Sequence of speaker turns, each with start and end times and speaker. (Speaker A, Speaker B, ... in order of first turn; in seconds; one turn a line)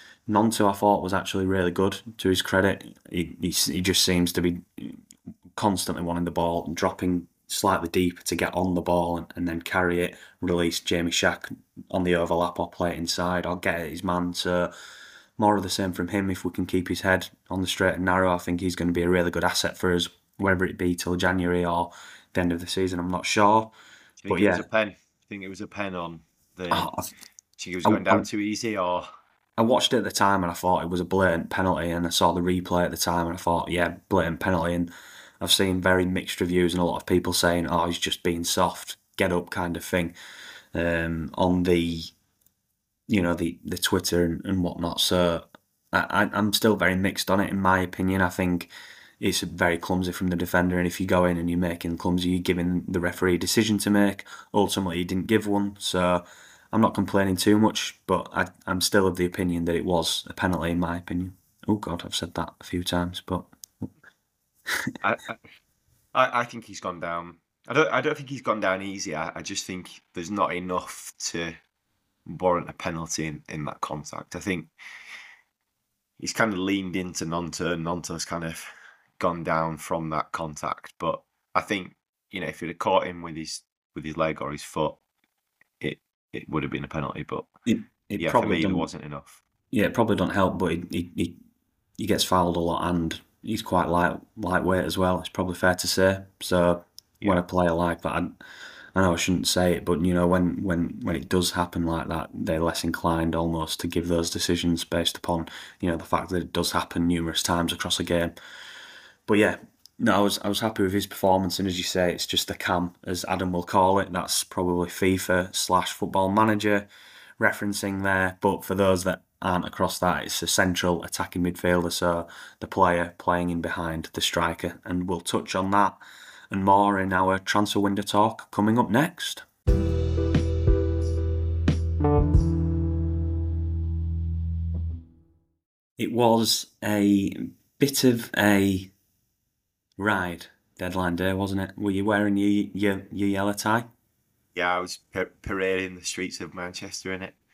Speaker A: 0.3-5.0
Speaker A: 5.5-14.7
Speaker A: 15.4-23.7
Speaker B: 24.2-26.9
Speaker A: 24.3-24.6
Speaker A: 26.7-27.1
Speaker B: 27.6-29.1
Speaker A: 27.8-28.3
Speaker A: 29.6-40.1
Speaker A: 40.7-42.1
Speaker A: 43.1-48.7
Speaker A: 49.2-63.9
Speaker B: 65.0-65.4
Speaker B: 66.1-71.5
Speaker B: 72.2-74.7
Speaker B: 76.2-85.0
Speaker B: 85.8-87.5
Speaker A: 87.7-88.9
Speaker B: 88.2-89.4
Speaker A: 89.7-91.4
Speaker A: 92.0-98.3
Speaker A: 98.9-108.3
Speaker A: 109.3-116.9
Speaker A: 117.4-129.4
Speaker A: 136.0-138.9
Speaker A: 140.0-143.9
Speaker B: 144.5-147.3